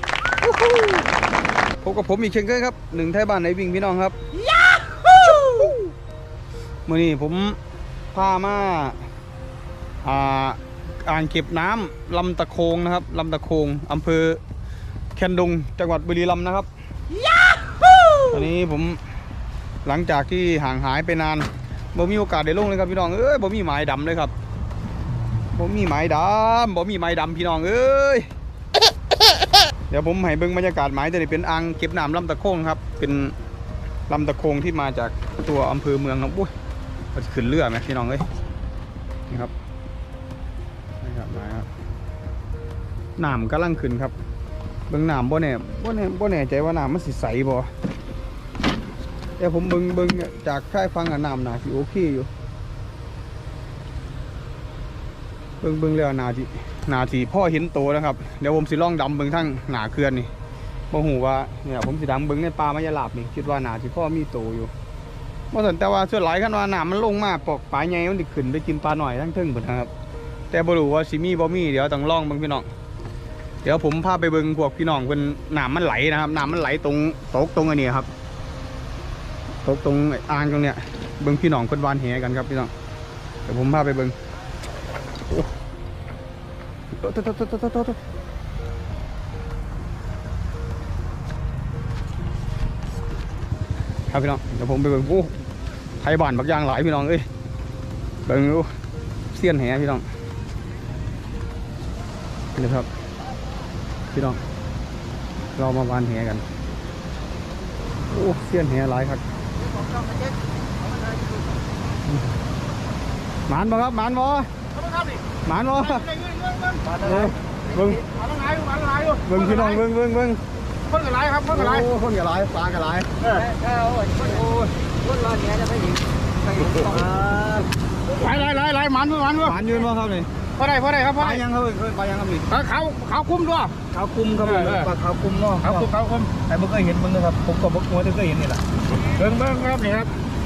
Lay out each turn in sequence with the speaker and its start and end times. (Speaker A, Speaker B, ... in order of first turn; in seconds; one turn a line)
Speaker A: 0.4-1.0
Speaker A: 1.8-4.2
Speaker A: 4.8-5.9
Speaker A: 6.9-7.6
Speaker A: 8.1-9.1
Speaker A: 10.0-14.4
Speaker A: 15.2-16.7
Speaker A: 18.2-19.0
Speaker A: 19.8-24.3
Speaker A: 25.5-28.3
Speaker A: 29.9-33.4
Speaker A: 34.1-36.5
Speaker A: 37.1-38.2
Speaker A: 41.0-41.7
Speaker A: 43.2-44.1
Speaker A: 44.9-47.7
Speaker A: 49.4-52.3
Speaker A: 55.6-60.3
Speaker A: 60.9-64.7
Speaker A: 65.5-69.9
Speaker A: 70.5-72.7
Speaker A: 73.6-78.1
Speaker A: 79.6-82.7
Speaker A: 83.5-84.2
Speaker A: 87.0-88.0
Speaker A: 94.1-95.3
Speaker A: 96.0-97.3
Speaker A: 98.2-98.7
Speaker A: 99.3-100.1
Speaker A: 102.5-102.9
Speaker A: 104.1-104.4
Speaker A: 105.5-106.5
Speaker A: 108.1-109.2
Speaker A: 113.5-114.5
Speaker A: 115.4-116.2
Speaker B: 116.2-117.0
Speaker A: 116.9-118.1
Speaker B: 118.2-119.2
Speaker A: 119.2-120.4
Speaker B: 120.9-121.5
Speaker A: 121.4-123.3
Speaker B: 123.6-124.3
Speaker A: 124.2-124.7
Speaker B: 125.4-125.8
Speaker A: 126.5-127.6
Speaker B: 128.1-129.3
Speaker A: 129.2-130.3
Speaker B: 130.6-131.2
Speaker A: 131.1-132.7
Speaker B: 132.6-133.7
Speaker A: 133.8-138.6
Speaker B: 139.2-140.1
Speaker A: 139.2-139.8